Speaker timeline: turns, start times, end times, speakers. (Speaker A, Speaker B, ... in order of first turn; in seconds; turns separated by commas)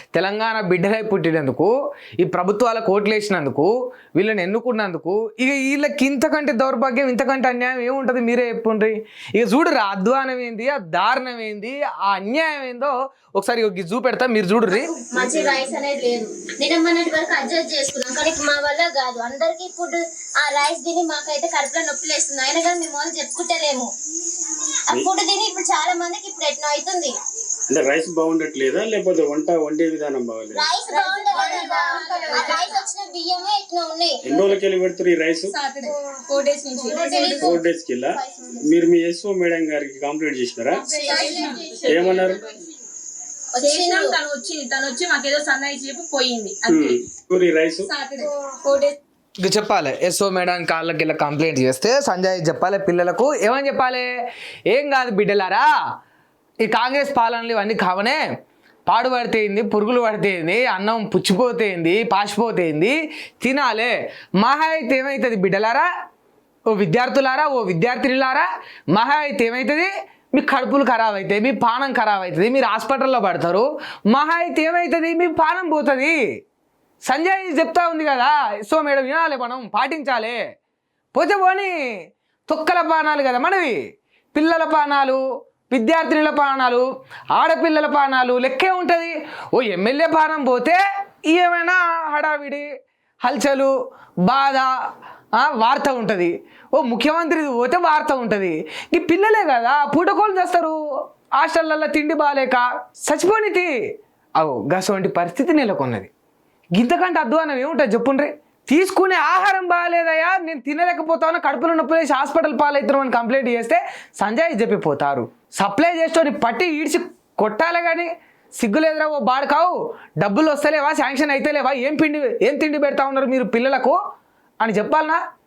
Speaker A: 0.1-14.9, Speaker B: 15.1-23.9, Speaker B: 24.9-27.1, Speaker C: 27.7-30.7, Speaker B: 30.5-34.5, Speaker D: 30.9-32.8, Speaker C: 34.2-35.5, Speaker D: 35.5-37.6, Speaker B: 36.8-38.6, Speaker C: 37.3-40.9, Speaker D: 40.7-42.6, Speaker B: 40.9-42.2, Speaker C: 41.8-42.4, Speaker B: 43.5-44.2, Speaker D: 43.6-47.0, Speaker C: 46.6-47.9, Speaker D: 47.9-49.0, Speaker A: 49.4-54.1, Speaker A: 54.7-55.7, Speaker A: 56.6-58.2, Speaker A: 58.9-65.9, Speaker A: 66.7-76.2, Speaker A: 77.0-80.4, Speaker A: 81.1-81.7, Speaker A: 82.5-83.8, Speaker A: 84.3-92.7, Speaker A: 93.2-93.7, Speaker A: 94.2-94.7, Speaker A: 95.4-100.8, Speaker A: 101.3-103.7, Speaker A: 104.4-106.1, Speaker A: 106.7-124.0, Speaker A: 124.6-125.2